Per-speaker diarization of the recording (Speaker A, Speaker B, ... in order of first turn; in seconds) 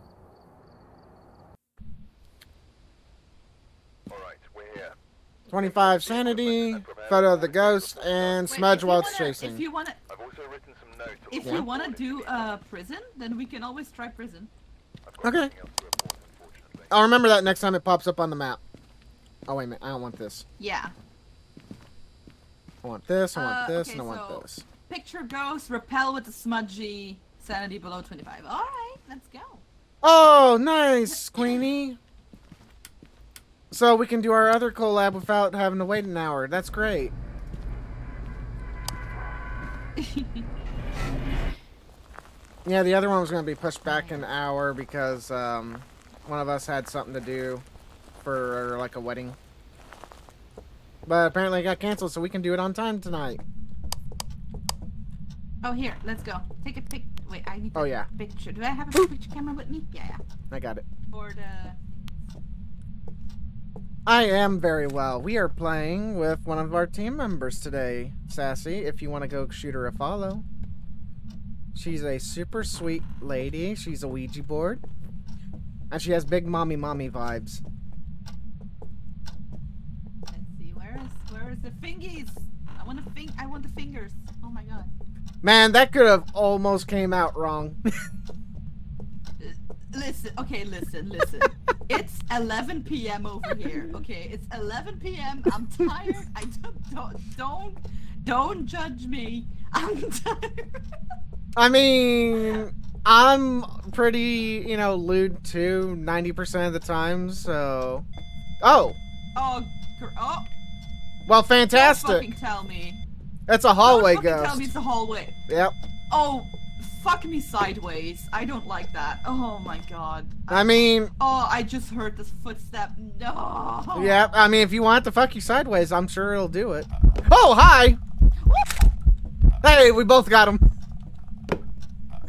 Speaker A: 4.1-5.0, 5.5-8.7, 10.1-12.6, 15.1-16.9
Speaker B: 5.5-9.6, 15.2-15.5, 16.9-18.6, 19.5-20.4, 22.8-24.6, 30.0-32.0, 33.7-37.1, 42.6-47.6, 48.2-49.4, 51.1-53.4, 57.8-58.1, 60.5-60.9, 64.1-70.5, 71.8-74.8, 75.9-77.6, 85.4-87.8, 101.6-108.1, 108.6-109.0, 111.3-112.2, 113.5-114.7, 115.5-115.7, 120.5-121.1, 124.0-128.0, 129.6-130.6
Speaker C: 8.5-10.0, 11.3-14.5, 20.6-20.9, 23.3-29.6, 40.0-40.5, 43.9-44.3, 55.6-60.2, 61.1-62.2, 80.3-84.9, 89.4-100.8, 109.3-110.5, 111.7-113.0, 113.8-115.4, 116.1-124.2, 128.4-128.9